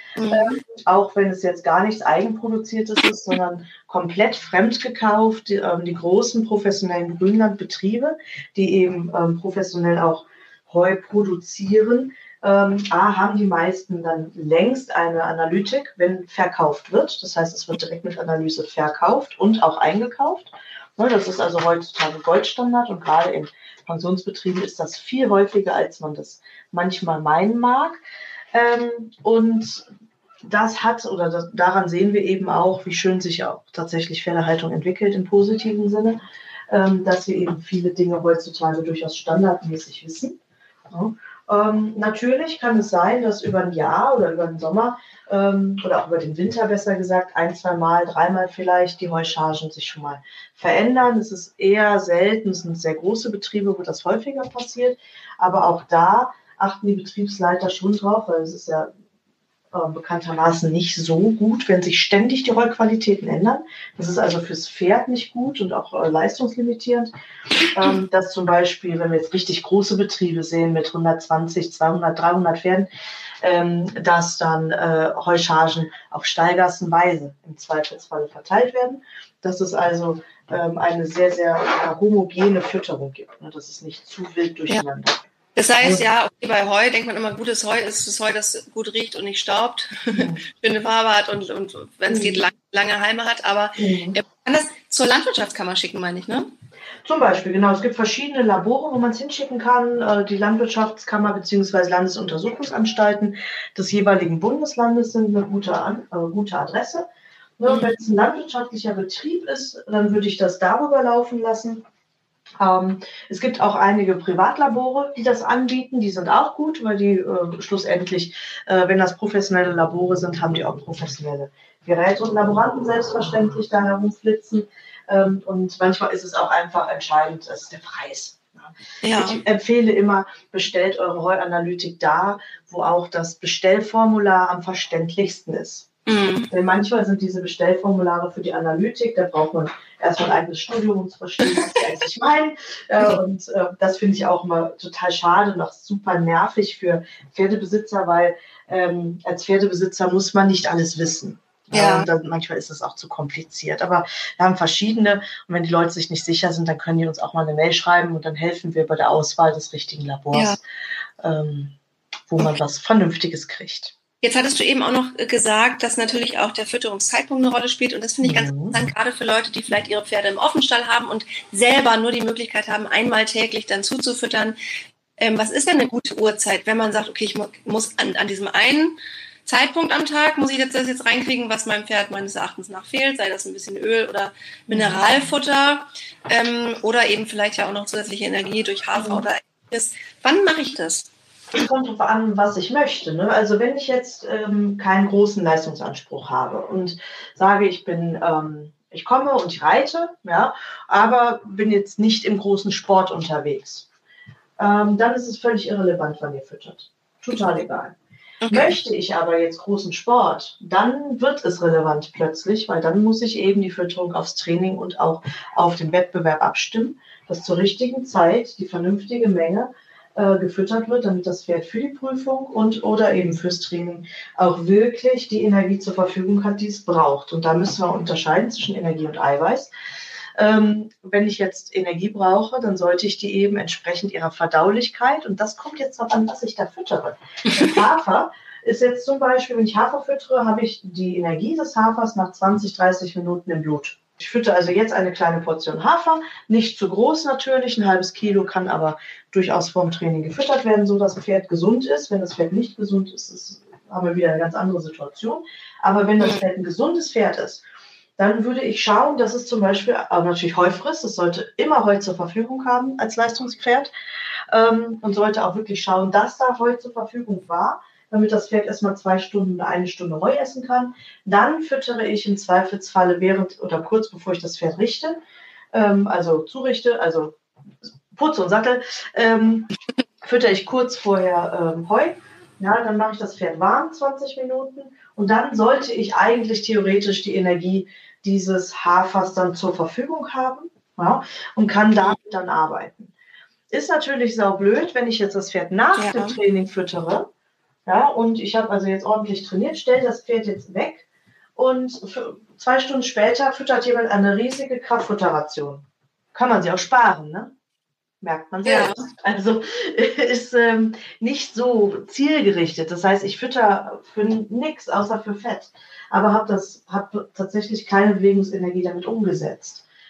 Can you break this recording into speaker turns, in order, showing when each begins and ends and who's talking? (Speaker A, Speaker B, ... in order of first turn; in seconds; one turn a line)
Speaker A: 0.2-0.6
Speaker B: 0.3-28.0
Speaker B: 28.5-29.9
Speaker B: 30.4-58.9
Speaker B: 59.7-67.1
Speaker B: 67.6-72.9
Speaker B: 73.4-85.2
Speaker A: 85.5-96.5
Speaker B: 90.1-90.4
Speaker B: 92.1-92.4
Speaker B: 93.8-94.2
Speaker B: 97.0-107.1
Speaker B: 107.6-111.8
Speaker A: 107.7-107.9
Speaker B: 112.6-135.9
Speaker A: 129.0-129.4
Speaker A: 136.1-136.5
Speaker B: 136.5-160.6
Speaker A: 151.7-152.1
Speaker A: 160.3-160.6
Speaker B: 161.2-161.8
Speaker B: 162.3-163.9
Speaker A: 164.2-174.6
Speaker B: 168.2-168.8
Speaker A: 175.2-191.1
Speaker B: 184.7-185.3
Speaker B: 189.0-189.2
Speaker B: 191.5-203.9
Speaker B: 204.6-207.9
Speaker A: 208.4-208.8
Speaker B: 208.5-229.7
Speaker B: 230.3-257.6
Speaker B: 258.2-263.9
Speaker B: 264.5-275.2
Speaker B: 275.7-277.4
Speaker B: 278.1-293.1
Speaker B: 293.7-297.3
Speaker A: 296.0-296.4
Speaker B: 297.9-301.0
Speaker B: 301.6-307.5
Speaker B: 308.2-319.8
Speaker A: 308.6-309.0